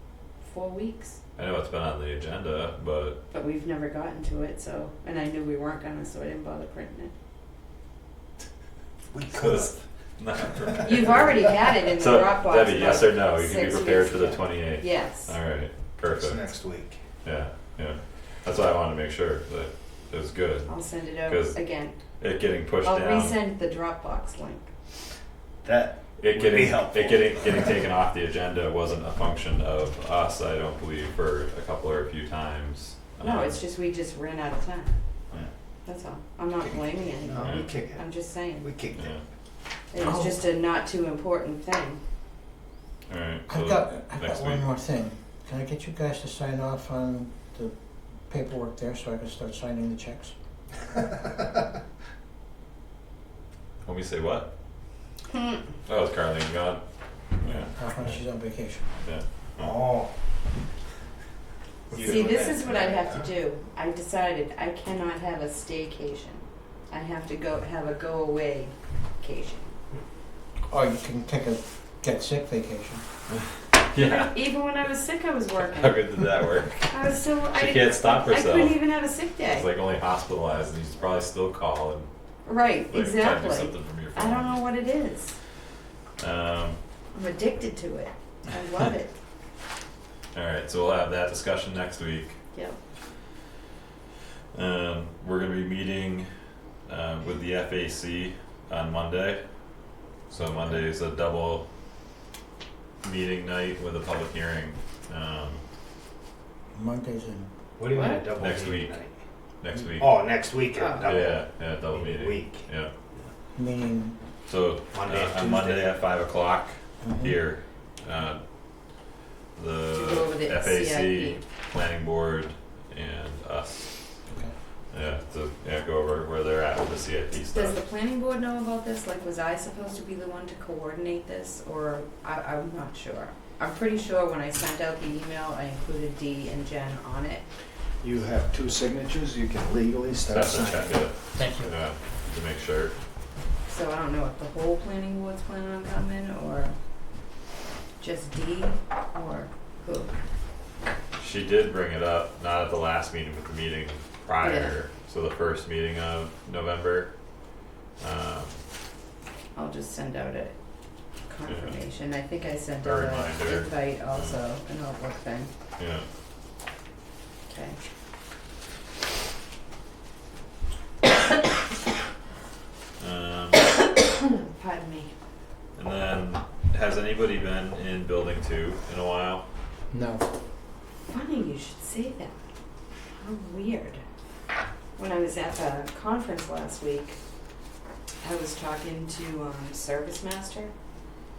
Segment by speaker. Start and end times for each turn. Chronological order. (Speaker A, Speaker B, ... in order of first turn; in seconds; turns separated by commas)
Speaker A: 0.4-1.2, Speaker B: 1.4-3.2, Speaker A: 3.3-7.1, Speaker C: 9.1-9.8, Speaker B: 9.3-16.4, Speaker C: 10.7-11.1, Speaker A: 10.8-15.3, Speaker C: 16.1-17.0, Speaker B: 17.2-21.6, Speaker A: 20.6-21.9, Speaker B: 22.2-23.4, Speaker A: 22.8-24.7, Speaker C: 25.6-27.8, Speaker B: 26.2-33.6, Speaker A: 33.2-35.0, Speaker A: 35.9-38.7, Speaker C: 36.6-38.0, Speaker B: 37.4-37.7, Speaker C: 38.6-39.2, Speaker B: 38.9-39.2, Speaker A: 39.9-42.0, Speaker D: 40.0-40.4, Speaker B: 43.1-44.7, Speaker D: 43.5-47.7, Speaker D: 48.3-50.3, Speaker B: 53.8-54.5, Speaker A: 55.3-55.6, Speaker B: 55.9-56.8, Speaker B: 57.4-58.2, Speaker D: 57.7-59.0, Speaker B: 59.0-59.9, Speaker C: 59.6-60.1, Speaker C: 61.9-63.3, Speaker B: 61.9-62.3, Speaker A: 61.9-69.7, Speaker D: 70.7-73.0, Speaker B: 73.9-74.4, Speaker A: 74.0-79.7, Speaker B: 75.6-77.0, Speaker B: 77.5-78.8, Speaker B: 79.4-82.1, Speaker A: 82.4-85.4, Speaker B: 82.9-84.6, Speaker B: 86.2-86.8, Speaker A: 87.1-89.1, Speaker B: 90.3-92.4, Speaker B: 94.5-96.3, Speaker B: 96.8-99.4, Speaker B: 100.3-101.7, Speaker B: 103.0-105.6, Speaker D: 106.7-107.5, Speaker C: 107.8-109.1, Speaker A: 107.9-108.3, Speaker B: 108.3-109.0, Speaker B: 109.6-110.2, Speaker C: 110.0-112.7, Speaker A: 110.7-111.2, Speaker B: 111.0-112.9, Speaker D: 113.5-114.2, Speaker B: 114.5-118.4, Speaker C: 114.9-115.9, Speaker D: 117.0-117.4, Speaker B: 119.5-124.0, Speaker A: 119.9-121.4, Speaker D: 124.3-124.5, Speaker B: 124.9-127.8, Speaker A: 127.5-137.4, Speaker C: 138.0-141.1, Speaker B: 140.3-142.9, Speaker D: 141.3-141.7, Speaker A: 143.7-146.7, Speaker A: 148.0-150.2, Speaker B: 151.2-157.1, Speaker A: 154.4-154.8, Speaker B: 158.0-158.6, Speaker A: 159.5-160.5, Speaker A: 161.3-165.5, Speaker B: 161.5-161.8, Speaker B: 162.8-164.3, Speaker B: 165.8-166.1, Speaker A: 167.5-167.8, Speaker B: 173.0-173.7, Speaker A: 174.3-175.1, Speaker B: 175.8-179.4, Speaker D: 179.9-180.2, Speaker A: 181.1-182.3, Speaker A: 183.2-184.0, Speaker A: 185.0-187.2, Speaker A: 188.2-190.7